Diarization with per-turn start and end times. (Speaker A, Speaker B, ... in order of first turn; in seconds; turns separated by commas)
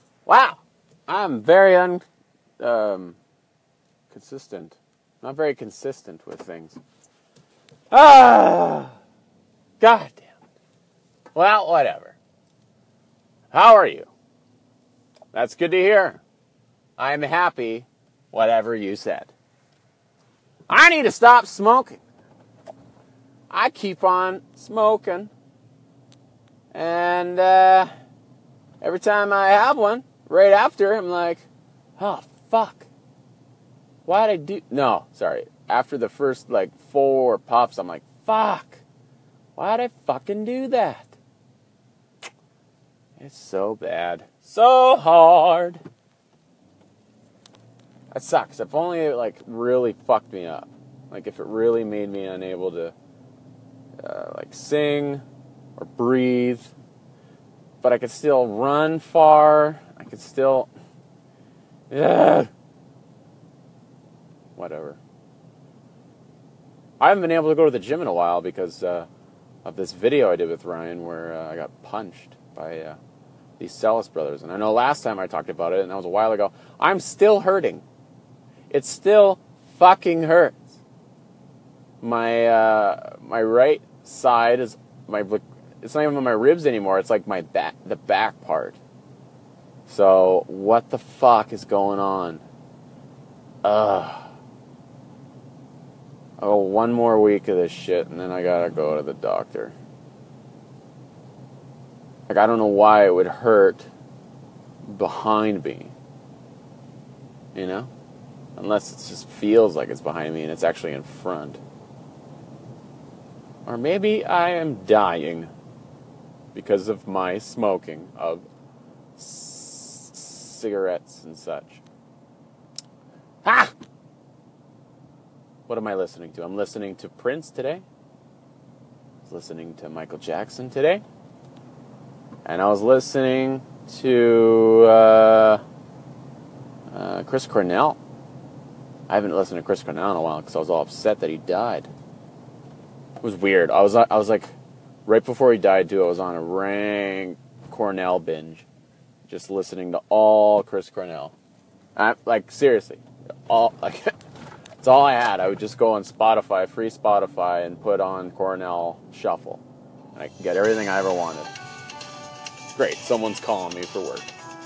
Speaker A: 0.2-2.0, Speaker A: 2.6-3.2, Speaker A: 4.1-6.8, Speaker A: 7.9-8.9, Speaker A: 9.8-10.4, Speaker A: 11.3-12.2, Speaker A: 13.5-14.1, Speaker A: 15.3-16.2, Speaker A: 17.0-19.3, Speaker A: 20.7-22.0, Speaker A: 23.5-25.3, Speaker A: 26.7-27.9, Speaker A: 28.8-31.4, Speaker A: 32.0-32.9, Speaker A: 34.0-38.8, Speaker A: 39.5-41.1, Speaker A: 43.2-45.8, Speaker A: 48.1-52.9, Speaker A: 54.0-55.2, Speaker A: 55.8-56.7, Speaker A: 57.8-60.7, Speaker A: 61.9-62.5, Speaker A: 64.5-65.0, Speaker A: 67.0-69.1, Speaker A: 69.6-73.0, Speaker A: 73.6-77.8, Speaker A: 78.7-80.8, Speaker A: 82.0-88.8, Speaker A: 89.9-92.4, Speaker A: 93.6-94.3, Speaker A: 96.4-99.7, Speaker A: 102.3-103.9, Speaker A: 104.9-105.9, Speaker A: 107.5-107.9, Speaker A: 108.5-111.6, Speaker A: 113.7-115.5, Speaker A: 116.5-118.5, Speaker A: 119.2-121.8, Speaker A: 123.4-123.7, Speaker A: 125.7-127.8, Speaker A: 129.2-131.0, Speaker A: 132.4-135.6, Speaker A: 136.9-138.0, Speaker A: 139.1-141.9, Speaker A: 143.2-144.5, Speaker A: 145.1-148.7, Speaker A: 149.3-151.3, Speaker A: 151.9-154.1, Speaker A: 154.8-159.6, Speaker A: 160.1-161.5, Speaker A: 162.7-164.3